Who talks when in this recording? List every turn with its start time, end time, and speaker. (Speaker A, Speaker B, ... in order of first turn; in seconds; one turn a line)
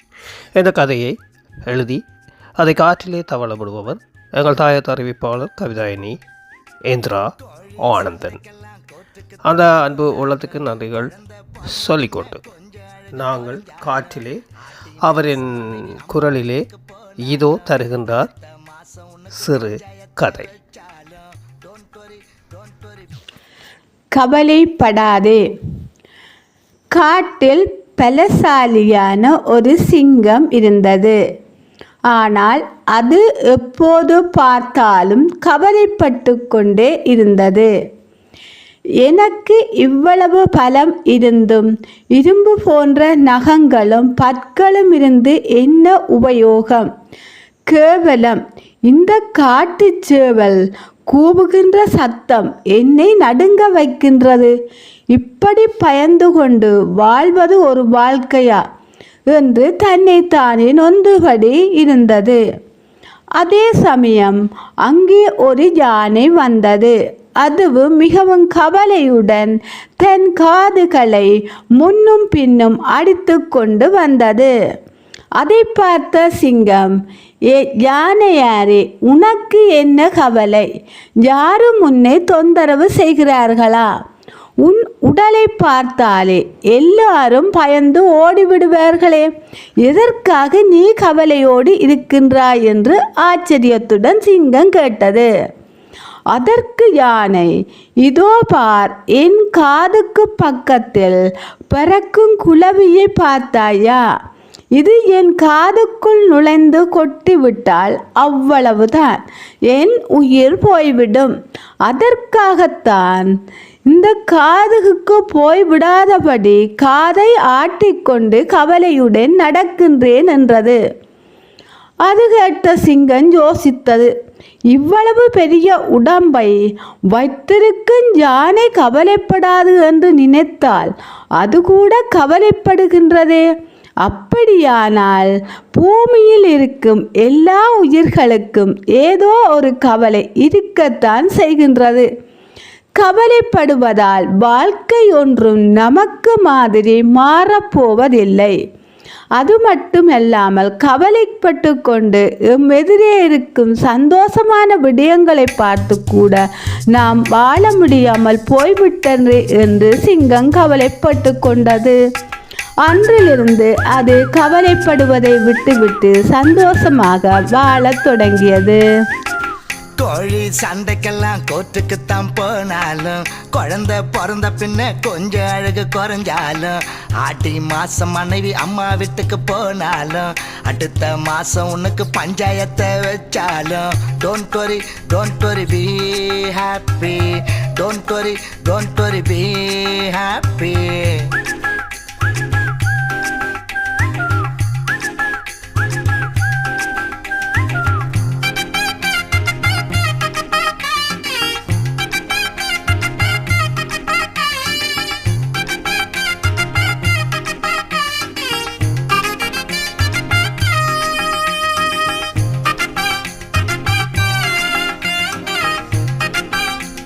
Speaker A: 0.5-2.0
Speaker A: 2.6-6.2
Speaker A: 6.9-8.4
Speaker B: 7.7-8.8
Speaker A: 9.4-11.1
Speaker B: 11.1-14.2
Speaker A: 11.7-12.4
Speaker A: 13.1-14.4
Speaker B: 14.8-23.1
Speaker A: 15.0-16.7
Speaker A: 17.2-18.3
Speaker A: 19.3-20.5
Speaker C: 24.1-25.5
Speaker C: 26.9-31.2
Speaker C: 32.1-37.7
Speaker C: 39.0-46.9
Speaker C: 47.7-54.5
Speaker C: 55.1-58.6
Speaker C: 59.3-62.4
Speaker C: 63.4-74.5
Speaker C: 75.4-77.0
Speaker C: 77.5-80.7
Speaker C: 81.2-83.9
Speaker C: 84.6-89.3
Speaker C: 89.8-95.3
Speaker C: 96.3-97.5
Speaker C: 98.0-104.0
Speaker C: 104.8-111.3
Speaker C: 111.8-113.3
Speaker C: 113.9-120.8
Speaker C: 122.0-124.1
Speaker C: 124.7-126.6
Speaker C: 127.1-133.5
Speaker C: 134.0-142.1
Speaker C: 143.0-148.6
Speaker C: 149.4-162.0
Speaker C: 162.8-168.8
Speaker B: 170.0-191.3